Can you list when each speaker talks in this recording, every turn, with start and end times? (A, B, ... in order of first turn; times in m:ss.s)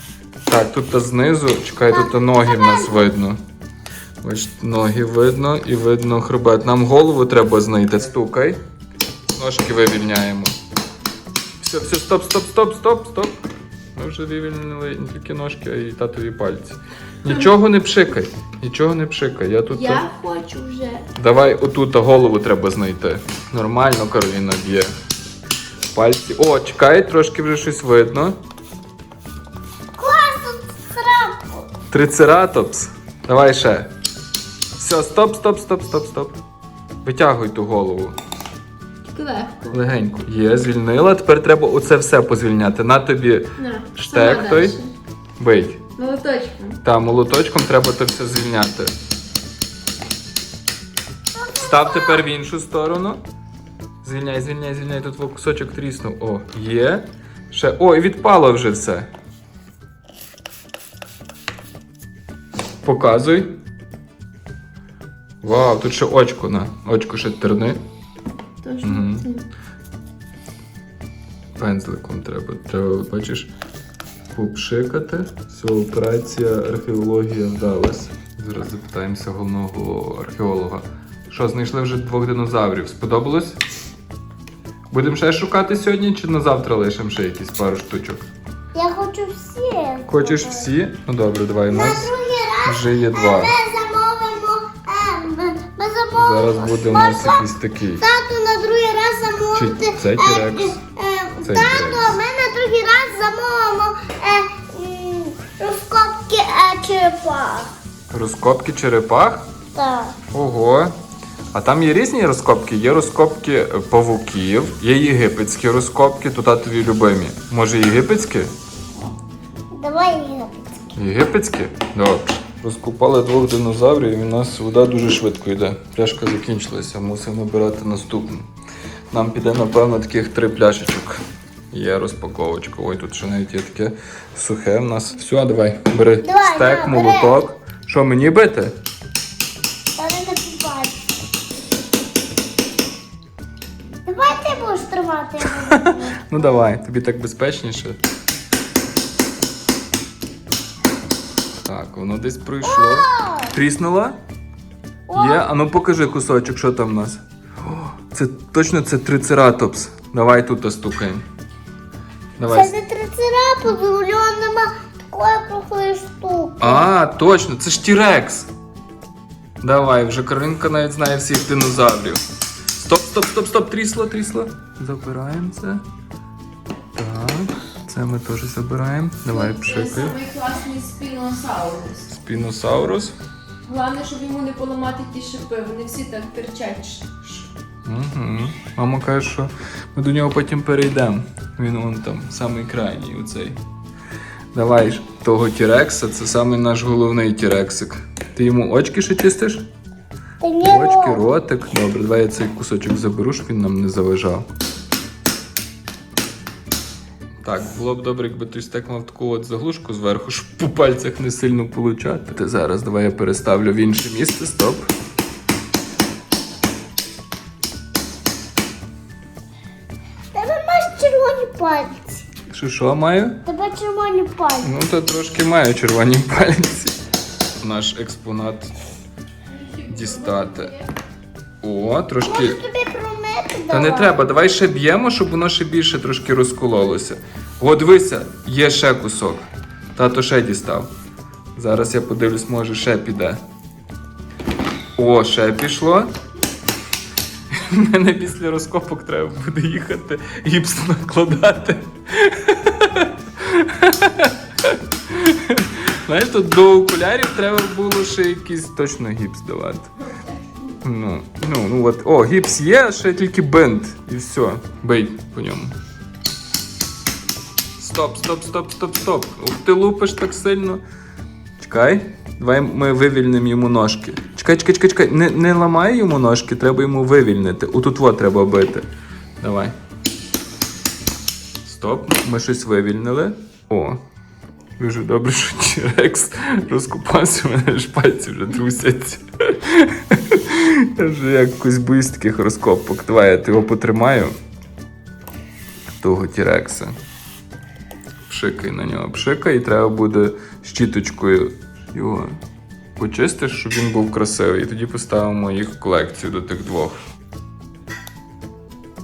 0:00.5-0:03.4 A
0:01.9-0:03.1 B
0:04.2-0:08.6 A
0:09.3-0:10.6 A
0:11.6-0:13.4 A
0:14.0-0:20.1 A
0:19.7-0:21.1 C
0:21.2-0:24.9 A
0:25.9-0:28.4 A
0:30.0-0:31.7 B
0:31.9-0:33.9 A
0:34.8-0:36.4 A
0:37.0-0:38.2 A
0:39.1-0:39.8 C
0:39.7-0:44.8 A
0:43.6-0:44.9 C
0:45.4-0:45.8 A
0:46.0-0:46.8 C
0:46.8-0:48.9 A
0:51.4-0:52.2 B
0:51.6-0:53.2 A
0:54.0-0:59.1 A
1:02.8-1:03.5 A
1:05.4-1:07.8 A
1:08.6-1:09.5 C
1:08.8-1:09.2 A
1:11.6-1:13.5 A
1:14.3-1:23.6 A
1:24.9-1:28.2 A
1:28.7-1:30.7 B
1:30.1-1:32.1 A
1:31.7-1:37.5 B
1:32.6-1:33.6 A
1:36.2-1:38.0 A
1:38.0-1:47.7 B
1:39.5-1:40.8 A
1:41.4-1:42.2 A
1:48.1-1:49.5 A
1:49.8-1:50.2 B
1:50.3-1:50.9 A
1:51.5-1:58.5 A
1:59.7-2:00.7 B
2:01.0-2:08.5 A
2:09.1-2:11.2 A
2:11.7-2:18.8 A
2:16.2-2:17.4 B
2:20.0-2:21.0 B
2:24.1-2:26.6 B
2:25.7-2:28.0 A
2:31.6-2:34.2 A
2:32.6-2:33.5 B
2:35.1-2:35.4 B
2:35.1-2:41.2 A
2:42.4-2:42.7 A
2:42.4-2:46.9 B
2:46.6-2:48.5 A
2:49.6-2:52.2 A
2:52.8-2:55.8 A
2:57.0-3:00.2 A
2:59.3-3:02.1 C
3:02.1-3:03.2 A
3:03.6-3:07.5 C
3:07.8-3:13.6 A
3:14.5-3:19.7 A
3:20.4-3:21.2 B
3:20.6-3:24.5 A
3:27.4-3:34.9 A
3:40.3-3:42.2 B
3:42.5-3:43.4 A
3:43.4-3:44.7 B
3:44.6-3:47.0 A
3:47.6-3:48.7 A
3:49.5-3:50.9 C
3:49.9-3:50.7 A
3:51.6-3:52.6 A
3:52.2-3:54.2 B
3:53.7-4:00.9 A
4:01.6-4:03.4 A
4:05.0-4:06.1 A
4:07.5-4:19.9 A
4:20.8-4:25.8 A
4:27.8-4:30.8 A
4:31.6-4:38.9 A
4:39.4-4:39.8 A
4:41.6-4:44.0 A
4:44.8-4:54.3 A
4:56.0-4:57.0 A
4:58.2-5:02.4 A
5:03.0-5:07.0 A